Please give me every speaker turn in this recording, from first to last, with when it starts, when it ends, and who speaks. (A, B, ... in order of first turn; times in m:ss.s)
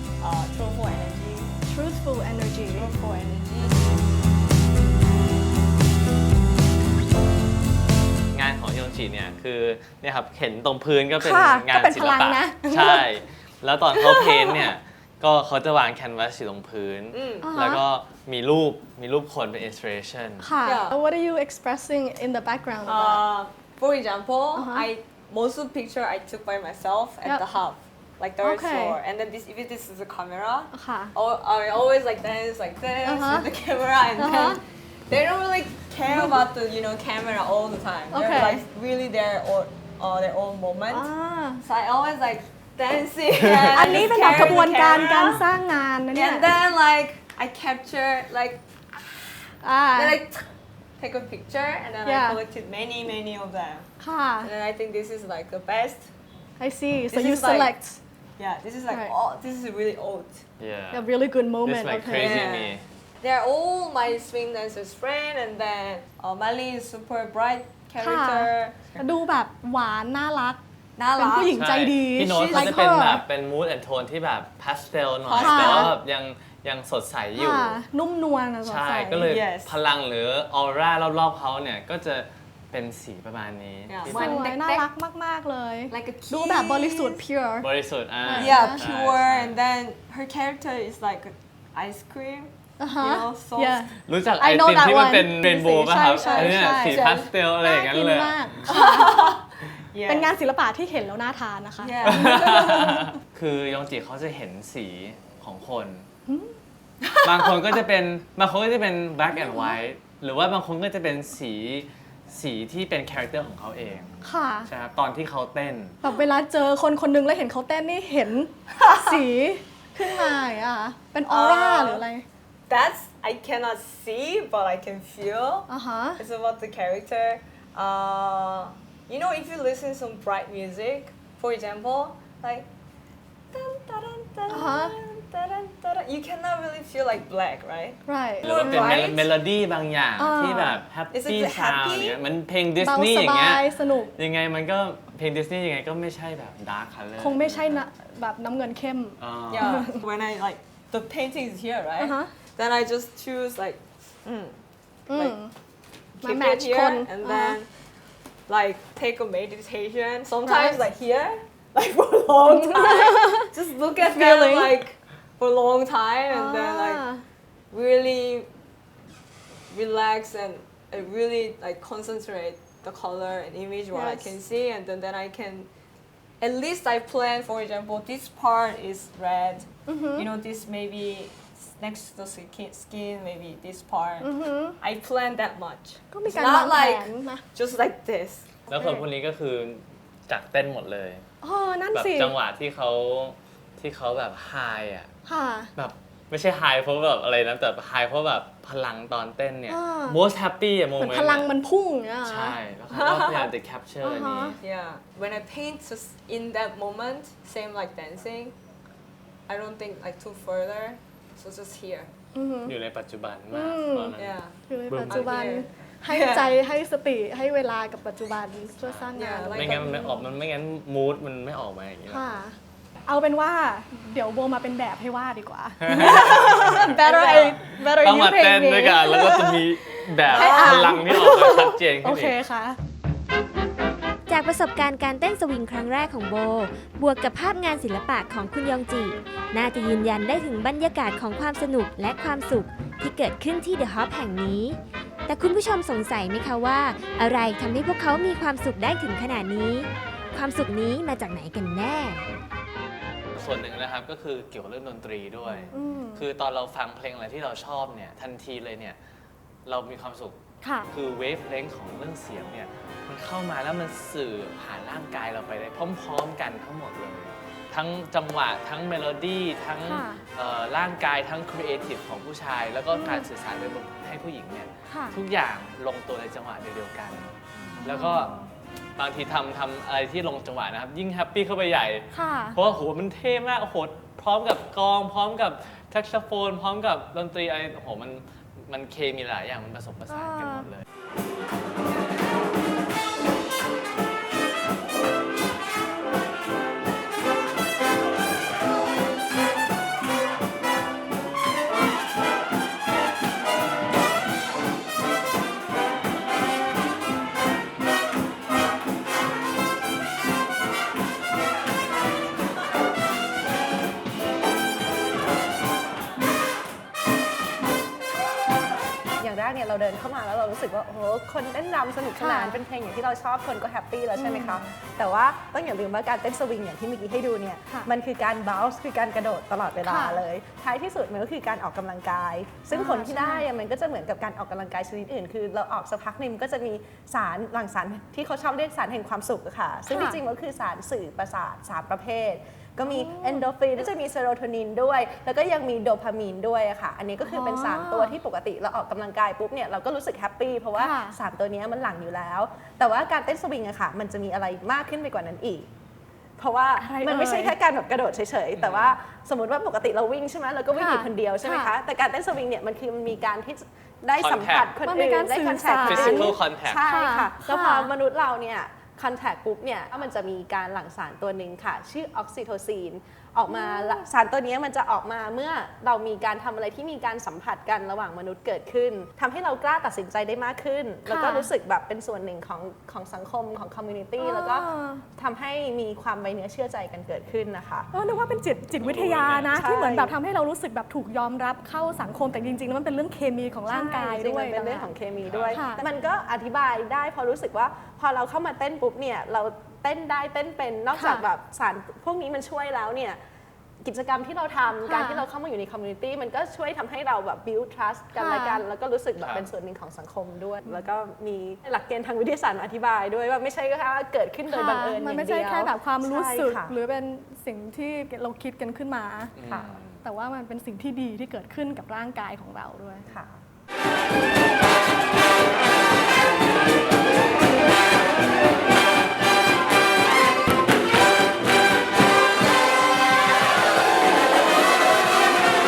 0:00.2-0:01.5 A
0:01.7-0:02.9 B
0:02.7-0:04.0 A
0:08.3-0:20.5 C
0:11.2-0:13.1 B
0:13.9-0:14.7 B
0:17.1-0:17.5 A
0:17.4-0:17.8 B
0:20.4-0:23.2 B
0:20.6-0:21.0 A
0:22.8-0:41.1 A
0:24.5-0:24.9 B
0:28.4-0:29.0 B
0:30.7-0:31.1 B
0:33.0-0:33.5 B
0:34.2-0:34.6 B
0:36.1-0:36.4 B
0:38.1-0:38.6 B
0:40.9-0:41.6 B
0:41.6-0:45.5 A
0:43.4-0:44.6 C
0:43.7-0:46.5 B
0:46.1-0:49.2 A
0:49.6-0:50.2 B
0:49.9-0:50.4 A
0:51.0-0:53.9 A
0:52.0-0:52.4 B
0:54.0-0:54.5 B
0:54.4-0:56.1 A
0:56.6-0:58.0 B
0:57.1-0:57.7 A
0:58.4-1:00.4 A
1:00.6-1:01.0 C
1:00.9-1:02.5 B
1:01.6-1:02.8 C
1:02.1-1:09.0 A
1:08.0-1:10.6 B
1:11.0-1:11.6 A
1:11.1-1:13.2 B
1:11.5-1:17.8 C
1:12.4-1:12.9 A
1:15.2-1:16.0 A
1:15.4-1:16.0 B
1:17.4-1:19.3 B
1:18.6-1:24.4 C
1:19.2-1:19.7 A
1:23.9-1:24.9 A
1:24.1-1:27.7 B
1:25.9-1:27.2 A
1:27.6-1:29.6 C
1:28.2-1:28.8 B
1:28.3-1:33.9 A
1:32.8-1:37.0 B
1:34.1-1:38.6 C
1:36.2-1:37.3 A
1:37.6-1:39.4 B
1:38.7-1:40.3 A
1:40.0-1:43.1 B
1:41.8-1:42.8 A
1:42.0-1:46.0 C
1:47.0-1:47.5 A
1:47.2-1:56.0 C
1:49.3-1:49.7 B
1:54.2-1:54.7 B
1:56.0-2:02.2 B
2:01.3-2:02.0 A
2:02.7-2:12.7 A
2:05.7-2:06.2 B
2:13.5-2:19.3 A
2:14.5-2:14.9 B
2:18.0-2:18.9 B
2:18.4-2:27.8 C
2:20.2-2:20.8 B
2:21.1-2:22.2 A
2:22.8-2:24.1 B
2:27.2-2:30.0 B
2:29.2-2:29.8 C
2:29.5-2:35.4 A
2:32.0-2:32.3 B
2:35.1-2:35.5 B
2:36.2-2:37.7 A
2:36.2-2:37.6 B
2:38.5-2:47.1 A
2:40.4-2:40.8 B
2:42.4-2:44.8 B
2:46.3-2:47.2 B
2:47.7-2:48.5 A
2:49.7-2:55.7 A
2:53.9-2:54.4 B
2:56.4-3:08.6 A
2:59.8-3:00.3 B
3:04.2-3:04.8 B
3:06.1-3:07.4 B
3:08.7-3:11.2 C
3:08.7-3:09.0 B
3:11.4-3:12.3 B
3:11.9-3:15.1 C
3:15.2-3:15.7 B
3:15.8-3:21.5 C
3:19.7-3:20.2 B
3:21.0-3:22.6 B
3:22.2-3:24.6 C
3:22.9-3:23.5 A
3:24.0-3:24.6 B
3:24.6-3:28.5 A
3:29.5-3:32.1 A
3:32.3-3:32.7 B
3:32.6-3:34.4 C
3:33.5-3:34.2 B
3:34.2-3:34.6 A
3:34.7-3:40.2 B
3:34.9-3:35.4 C
3:35.1-3:36.5 A
3:38.8-3:42.2 C
3:39.1-3:40.1 A
3:42.1-3:49.6 B
3:45.8-3:52.4 C
3:46.0-3:47.8 A
3:50.2-3:52.8 B
3:50.3-3:51.0 A
3:54.3-4:04.8 D
4:05.3-4:12.3 D
4:13.3-4:19.0 C
4:15.7-4:16.2 B
4:19.6-4:38.3 C
4:20.6-4:20.9 B
4:29.8-4:30.2 B
4:32.9-4:33.2 B
4:34.9-4:35.2 B
4:37.8-4:38.5 B
4:39.0-4:50.8 C
4:42.1-4:42.6 B
4:50.1-4:50.7 B
5:19.2-5:55.7 E
5:22.2-5:22.6 B
5:24.2-5:24.6 B
5:29.8-5:30.2 B
5:32.7-5:33.4 B
5:39.9-5:40.2 B
5:42.9-5:43.4 B
5:47.2-5:48.2 B
5:50.8-5:51.2 B
5:56.4-6:27.9 E
5:56.8-5:57.6 B
5:58.6-5:59.0 C
6:00.7-6:01.7 B
6:04.2-6:04.7 C
6:04.8-6:07.9 B
6:05.8-6:06.8 C
6:13.5-6:14.0 B
6:21.1-6:21.5 B
6:24.2-6:25.0 B
6:27.9-6:34.9 B
6:28.8-6:29.6 C
6:29.5-6:30.1 E
6:33.7-6:43.2 E
6:35.2-6:35.6 C
6:35.5-6:35.8 B
6:40.9-6:41.2 B
6:43.8-6:56.7 E
6:44.8-6:45.2 B
6:48.2-6:48.6 B
6:49.2-6:49.4 C
6:54.5-6:59.3 B
6:59.4-7:00.0 C
7:00.0-7:03.1 B
7:03.1-7:03.4 E